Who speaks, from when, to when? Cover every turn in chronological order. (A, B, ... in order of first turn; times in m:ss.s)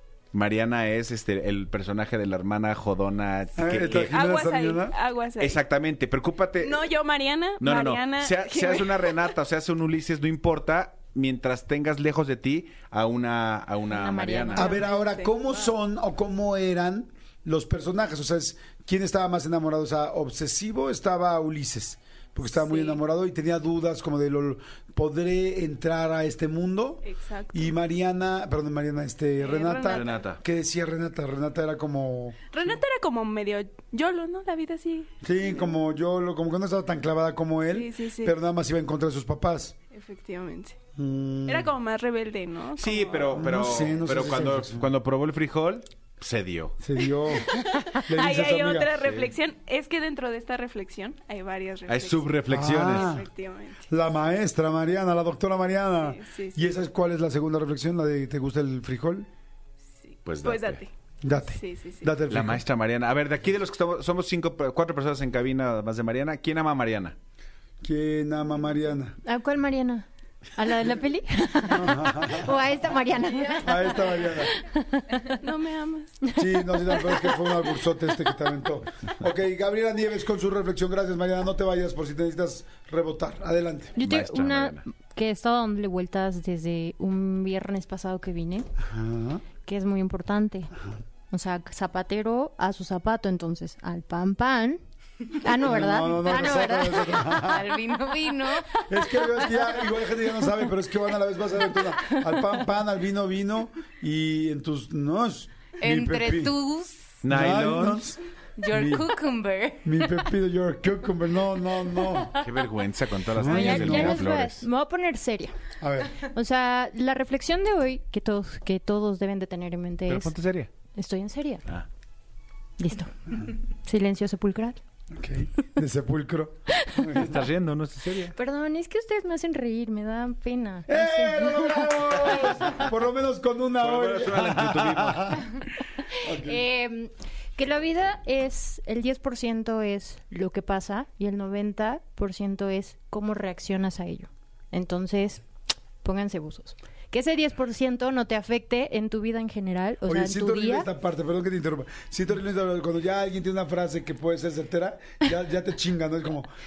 0:00.3-0:04.1 A
0:03.6-0:05.0 B
0:03.7-0:05.6 C
0:05.4-0:06.9 A
0:06.6-0:09.3 C
0:07.6-0:14.7 A
0:13.9-0:14.9 D
0:14.6-0:32.6 B
0:14.7-0:15.7 C
0:22.5-0:23.0 C
0:27.0-0:27.8 C
0:29.4-0:30.2 C
0:29.9-0:30.4 A
0:32.5-0:35.1 C
0:35.2-0:39.8 B
0:37.7-0:38.4 C
0:39.9-0:40.8 C
0:41.0-0:41.7 B
0:41.5-0:43.5 C
0:42.8-0:46.8 A
0:43.3-0:44.9 B
0:46.8-0:48.9 B
0:47.3-0:53.9 C
0:49.0-0:49.3 A
0:51.9-0:53.1 A
0:52.5-0:53.3 B
0:53.9-0:59.3 B
0:56.0-0:56.7 C
1:00.0-1:00.9 C
1:00.2-1:00.8 A
1:01.2-1:02.6 B
1:01.5-1:02.2 C
1:02.3-1:07.2 A
1:07.8-1:09.2 B
1:09.2-1:15.3 D
1:11.7-1:12.5 B
1:13.6-1:14.5 B
1:15.4-1:16.2 C
1:16.3-1:17.4 D
1:16.4-1:24.0 B
1:24.0-1:28.7 D
1:24.0-1:24.8 A
1:28.8-1:29.4 B
1:29.6-1:30.7 D
1:31.3-1:34.8 D
1:35.3-1:39.6 D
1:35.6-1:37.8 B
1:38.9-1:46.6 B
1:45.8-1:47.2 D
1:47.2-1:48.0 A
1:47.3-1:49.1 B
1:48.6-1:49.9 D
1:49.8-1:52.4 B
1:52.4-1:54.7 A
1:53.3-1:54.3 B
1:53.4-1:55.6 D
1:55.8-1:56.2 B
1:56.2-2:00.3 D
2:00.1-2:00.7 A
2:00.9-2:01.7 D
2:02.8-2:04.8 D
2:05.1-2:07.4 B
2:07.2-2:08.3 A
2:08.3-2:12.9 D
2:10.9-2:15.4 B
2:13.8-2:15.3 A
2:16.2-2:16.6 B
2:16.4-2:25.4 D
2:26.0-2:30.9 D
2:30.0-2:36.5 B